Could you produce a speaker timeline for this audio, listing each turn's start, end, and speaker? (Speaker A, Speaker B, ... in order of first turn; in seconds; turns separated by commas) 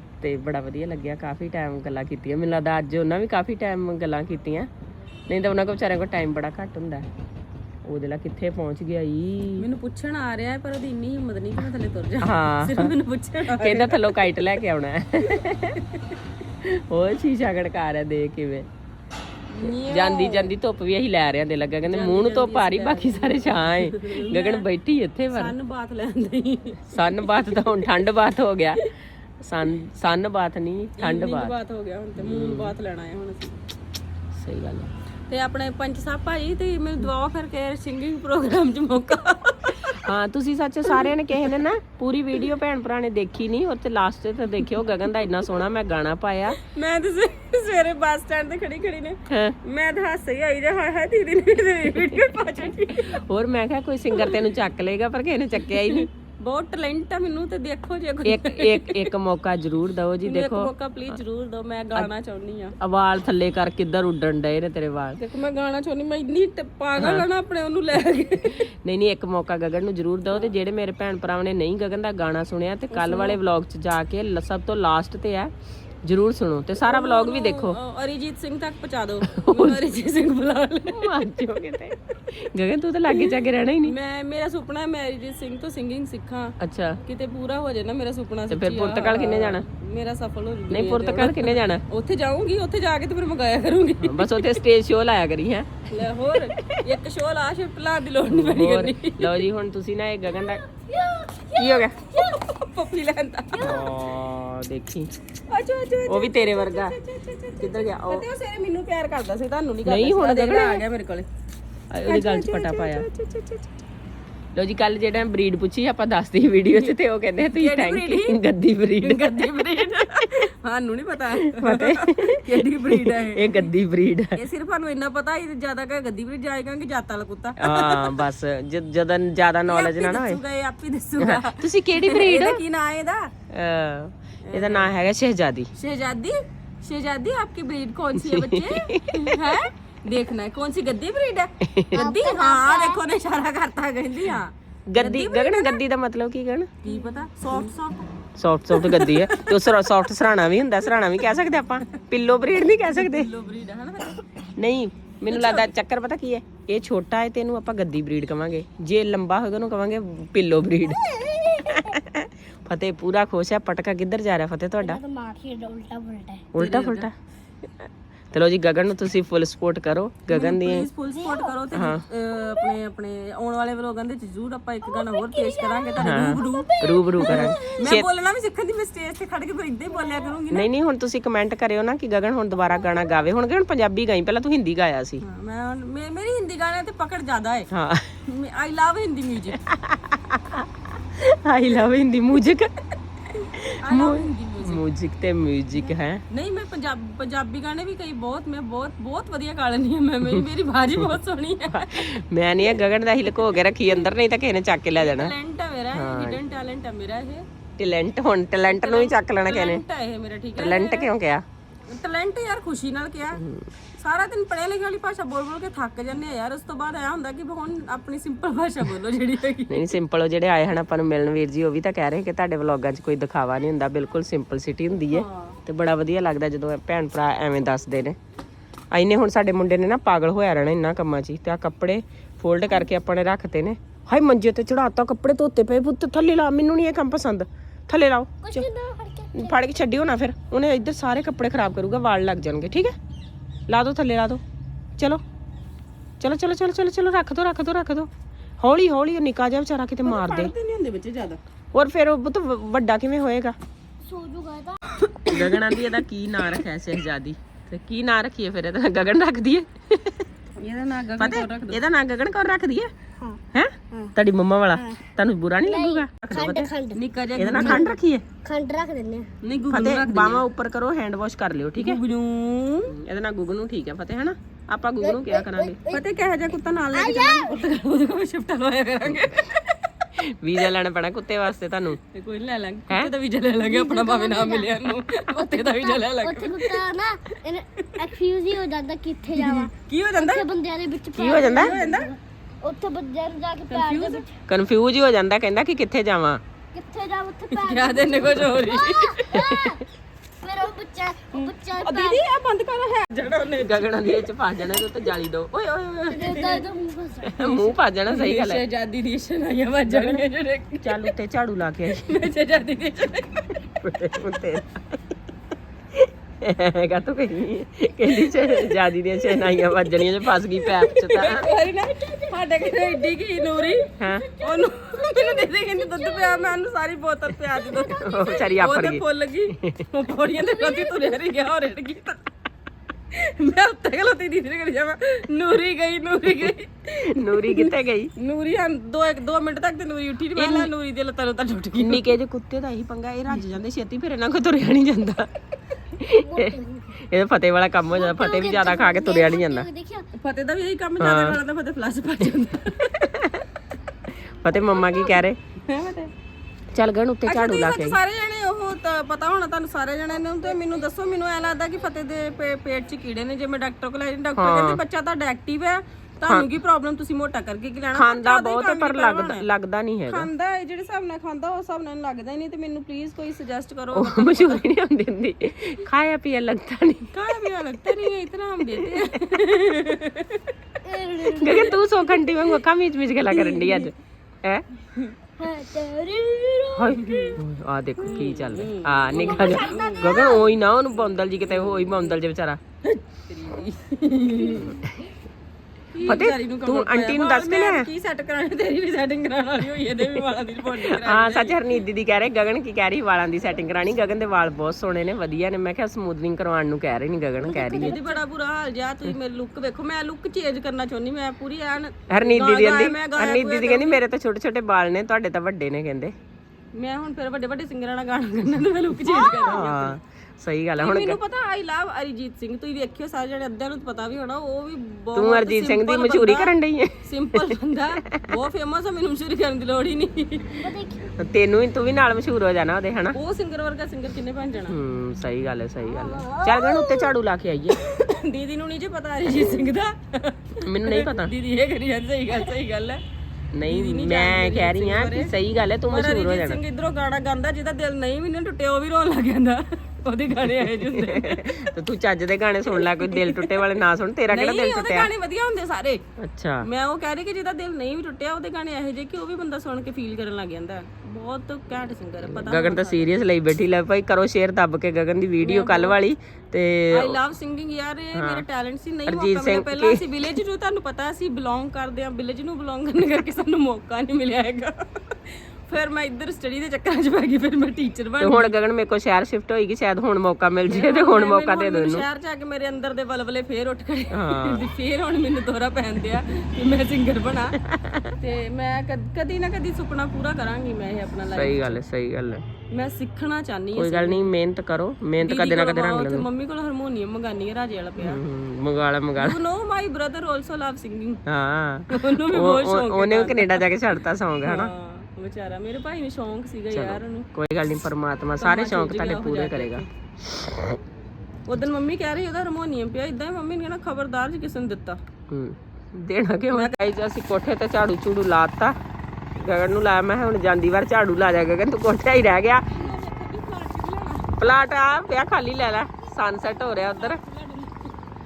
Speaker A: 0.2-4.7, Speaker A: 5.3-7.1, Speaker A: 7.8-9.7, Speaker B: 9.6-14.5, Speaker A: 12.2-12.9, Speaker A: 13.5-15.8, Speaker A: 16.6-18.7, Speaker B: 19.5-20.5, Speaker A: 19.7-25.5, Speaker B: 21.8-24.6, Speaker B: 25.3-27.9, Speaker A: 26.9-28.8, Speaker A: 29.4-31.5, Speaker B: 31.0-33.6, Speaker A: 32.2-32.7, Speaker A: 34.3-34.9, Speaker B: 35.3-40.1, Speaker A: 40.0-46.6, Speaker B: 40.9-41.6, Speaker B: 46.6-53.2, Speaker A: 49.3-49.5, Speaker A: 53.1-56.1, Speaker B: 54.1-54.5, Speaker B: 55.6-59.1, Speaker A: 58.2-60.7, Speaker B: 60.2-62.7, Speaker A: 62.8-65.2, Speaker B: 65.2-68.7, Speaker A: 67.0-67.2, Speaker A: 68.5-75.5, Speaker B: 72.9-73.4, Speaker A: 76.0-77.8, Speaker B: 76.8-81.1, Speaker A: 79.3-79.8, Speaker A: 80.9-83.9, Speaker B: 83.1-94.6, Speaker A: 86.6-87.0, Speaker A: 88.5-89.7, Speaker A: 90.7-91.8, Speaker A: 94.0-95.8, Speaker B: 95.9-99.5, Speaker A: 98.3-100.6, Speaker B: 100.7-103.9, Speaker A: 101.5-102.0, Speaker A: 103.5-105.1, Speaker B: 105.5-111.3, Speaker A: 106.1-107.0, Speaker A: 107.6-108.2, Speaker A: 109.8-110.8, Speaker A: 111.9-113.0, Speaker B: 112.0-113.7, Speaker A: 114.5-119.2, Speaker B: 116.7-118.4, Speaker B: 119.0-123.7, Speaker A: 121.5-124.4, Speaker B: 124.3-128.3, Speaker A: 127.6-130.4, Speaker B: 129.7-133.3, Speaker A: 131.2-132.6, Speaker A: 133.5-135.7, Speaker B: 134.4-134.9, Speaker B: 135.7-145.8, Speaker A: 138.2-139.4, Speaker A: 141.6-142.0, Speaker C: 141.9-143.0, Speaker A: 144.9-146.7, Speaker B: 146.8-148.1, Speaker A: 148.4-153.3, Speaker B: 148.7-150.1, Speaker B: 152.7-154.3, Speaker A: 154.6-165.0, Speaker B: 155.3-155.7, Speaker C: 160.8-162.0, Speaker C: 164.8-166.5, Speaker A: 166.5-167.1, Speaker B: 166.6-167.1, Speaker A: 168.3-170.9, Speaker B: 170.3-180.7, Speaker C: 171.1-171.5, Speaker A: 171.7-172.0, Speaker C: 174.8-177.8, Speaker A: 176.0-178.1, Speaker C: 179.9-180.3, Speaker A: 180.5-185.2, Speaker B: 185.2-187.7, Speaker A: 187.7-188.1, Speaker B: 188.3-189.6, Speaker A: 189.5-190.7, Speaker A: 191.2-192.7, Speaker A: 193.3-196.2, Speaker B: 193.8-194.8, Speaker B: 195.8-204.1, Speaker A: 201.7-205.3, Speaker B: 204.9-207.5, Speaker A: 205.9-206.4, Speaker A: 207.8-209.8, Speaker B: 208.6-211.1, Speaker A: 210.6-211.4, Speaker B: 211.9-213.4, Speaker A: 213.4-213.7, Speaker B: 214.0-220.0, Speaker A: 219.7-228.2, Speaker B: 225.1-225.6, Speaker A: 228.9-238.7, Speaker C: 238.4-239.6, Speaker A: 239.3-242.9, Speaker A: 243.7-244.4, Speaker A: 245.0-245.2, Speaker A: 246.2-248.1, Speaker A: 248.6-250.5, Speaker B: 250.0-251.4, Speaker A: 251.7-253.5, Speaker C: 254.0-255.4, Speaker A: 255.3-260.2, Speaker B: 260.6-261.8, Speaker A: 261.2-262.9, Speaker A: 263.5-266.7, Speaker C: 264.7-265.0, Speaker C: 265.6-269.3, Speaker B: 266.9-267.9, Speaker A: 267.4-268.2, Speaker B: 269.4-270.4, Speaker A: 269.7-272.0, Speaker B: 271.8-272.9, Speaker A: 272.9-275.8, Speaker C: 275.0-276.0, Speaker B: 275.9-280.1, Speaker C: 276.9-277.6, Speaker A: 280.2-282.0, Speaker B: 282.1-287.0, Speaker C: 283.6-294.3, Speaker B: 287.8-288.0, Speaker B: 289.3-290.5, Speaker A: 291.1-291.7, Speaker B: 291.1-292.1, Speaker B: 293.7-294.2, Speaker A: 294.5-296.4, Speaker C: 296.7-299.9, Speaker B: 297.5-299.3, Speaker A: 299.3-299.7, Speaker C: 300.4-302.2, Speaker B: 301.3-305.1, Speaker A: 303.6-305.8, Speaker B: 305.7-306.7, Speaker C: 306.1-307.7, Speaker A: 307.3-308.6, Speaker B: 308.1-311.1, Speaker A: 309.9-310.2, Speaker A: 310.8-312.2, Speaker B: 311.9-313.6, Speaker A: 313.8-314.9, Speaker A: 315.9-321.5, Speaker B: 318.1-320.0, Speaker B: 320.6-332.2, Speaker A: 324.0-324.3, Speaker C: 324.4-326.5, Speaker C: 327.6-328.4, Speaker A: 327.6-329.0, Speaker A: 329.6-329.8, Speaker C: 330.4-331.1, Speaker B: 333.1-342.1, Speaker A: 337.1-338.1, Speaker A: 340.3-340.7, Speaker A: 341.8-345.3, Speaker A: 345.9-349.7, Speaker C: 346.2-347.0, Speaker C: 347.9-350.1, Speaker B: 350.2-353.0, Speaker A: 351.0-351.4, Speaker A: 352.9-353.4, Speaker A: 354.4-355.4, Speaker C: 354.6-355.2, Speaker B: 355.7-356.1, Speaker A: 356.7-358.0, Speaker B: 357.2-369.4, Speaker A: 364.4-364.8, Speaker A: 367.9-370.3, Speaker B: 370.1-374.7, Speaker A: 373.9-377.1, Speaker B: 377.1-380.4, Speaker C: 380.8-381.8, Speaker B: 381.2-382.6, Speaker A: 381.3-384.6, Speaker B: 383.3-383.9, Speaker C: 385.4-387.4, Speaker A: 386.8-392.6, Speaker B: 386.9-387.4, Speaker B: 388.0-390.5, Speaker C: 388.0-388.3, Speaker C: 389.1-390.4, Speaker B: 391.4-392.2, Speaker B: 392.8-394.8, Speaker A: 394.5-395.1, Speaker B: 395.9-401.8, Speaker A: 396.0-397.9, Speaker A: 400.7-408.0, Speaker C: 407.4-408.2, Speaker B: 407.7-414.0, Speaker A: 412.1-416.1, Speaker B: 416.7-420.0, Speaker C: 419.1-419.6, Speaker A: 419.4-421.2, Speaker B: 420.8-430.7, Speaker A: 425.1-427.5, Speaker C: 430.6-431.1, Speaker A: 431.2-433.2, Speaker B: 433.1-434.8, Speaker A: 434.7-437.8, Speaker C: 435.8-437.1, Speaker B: 437.8-443.0, Speaker A: 440.6-441.3, Speaker A: 443.5-446.6, Speaker B: 443.7-445.3, Speaker B: 445.9-451.5, Speaker A: 450.8-455.1, Speaker B: 452.6-453.5, Speaker B: 454.3-456.0, Speaker A: 456.2-456.6, Speaker B: 456.6-463.1, Speaker A: 462.2-467.2, Speaker B: 465.4-466.0, Speaker B: 466.9-478.6, Speaker A: 468.1-468.4, Speaker A: 469.1-470.4, Speaker A: 478.2-482.0, Speaker B: 480.7-487.6, Speaker A: 484.1-484.7, Speaker A: 487.6-488.1, Speaker B: 488.2-491.8, Speaker A: 491.3-492.4, Speaker B: 492.7-494.3, Speaker A: 493.7-496.3, Speaker B: 495.2-498.2, Speaker A: 498.0-499.4, Speaker B: 499.1-501.2, Speaker A: 501.3-504.7, Speaker B: 501.9-503.7, Speaker B: 504.4-507.3, Speaker A: 506.7-510.8, Speaker B: 508.4-509.9, Speaker B: 511.5-515.0, Speaker A: 515.3-518.8, Speaker B: 516.5-516.8, Speaker A: 519.3-522.9, Speaker B: 522.7-524.4, Speaker A: 524.4-527.2, Speaker B: 526.3-527.9